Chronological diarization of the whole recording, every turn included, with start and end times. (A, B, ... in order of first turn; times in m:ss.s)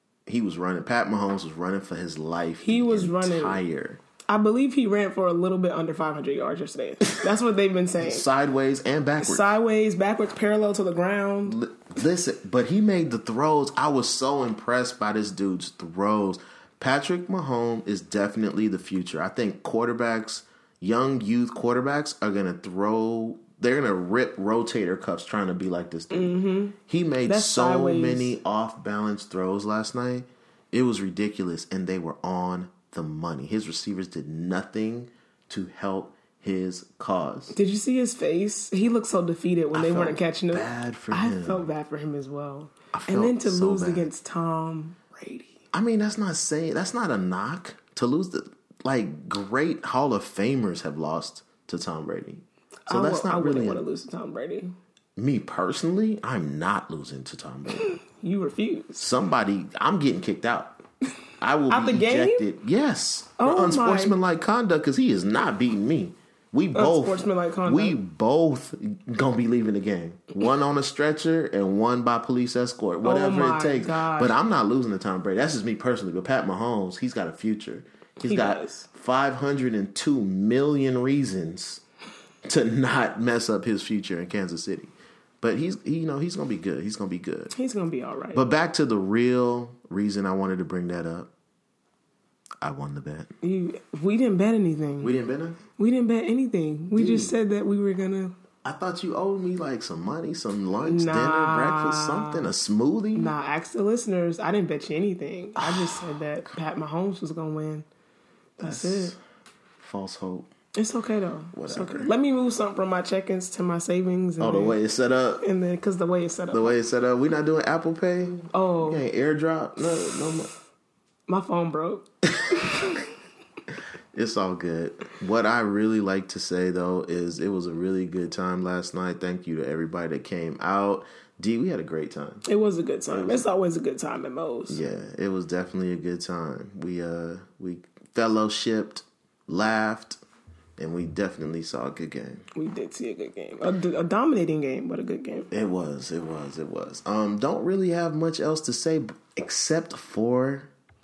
0:00.3-0:04.0 A
0:02.6-0:03.6 B
0:04.3-0:08.2 B
0:08.0-0:09.5 A
0:09.2-0:11.6 B
0:11.4-0:26.3 A
0:26.1-0:28.3 B
0:26.9-0:37.6 A
0:37.5-0:45.6 B
0:39.7-0:41.7 A
0:42.9-0:44.1 A
0:45.7-0:53.8 A
0:52.9-0:54.7 B
0:55.2-0:58.0 A
0:57.8-0:59.1 B
0:59.0-1:00.8 A
1:01.4-1:21.8 A
1:01.7-1:02.4 B
1:03.4-1:04.2 B
1:06.8-1:08.0 B
1:13.0-1:14.4 B
1:18.2-1:18.9 B
1:22.4-1:27.5 A
1:27.5-1:28.4 B
1:28.3-1:31.3 A
1:32.6-1:33.3 A
1:33.4-1:35.1 B
1:35.0-1:35.6 A
1:35.8-1:38.3 B
1:36.9-1:37.3 A
1:38.6-1:43.3 A
1:40.8-1:42.5 B
1:43.2-1:47.9 B
1:45.6-1:46.2 A
1:48.6-1:49.1 B
1:48.6-1:49.2 A
1:49.8-1:50.5 A
1:50.8-1:54.8 B
1:51.5-1:52.1 A
1:54.4-1:55.4 A
1:55.4-1:56.8 B
1:56.5-2:00.5 A
1:58.5-1:59.0 B
1:59.9-2:00.3 B
2:01.3-2:03.1 B
2:02.3-2:03.0 A
2:04.1-2:12.4 A
2:12.5-2:14.8 B
2:13.1-2:13.4 A
2:14.7-2:20.2 A
2:20.8-2:22.4 A
2:22.6-2:25.5 B
2:25.5-2:30.7 A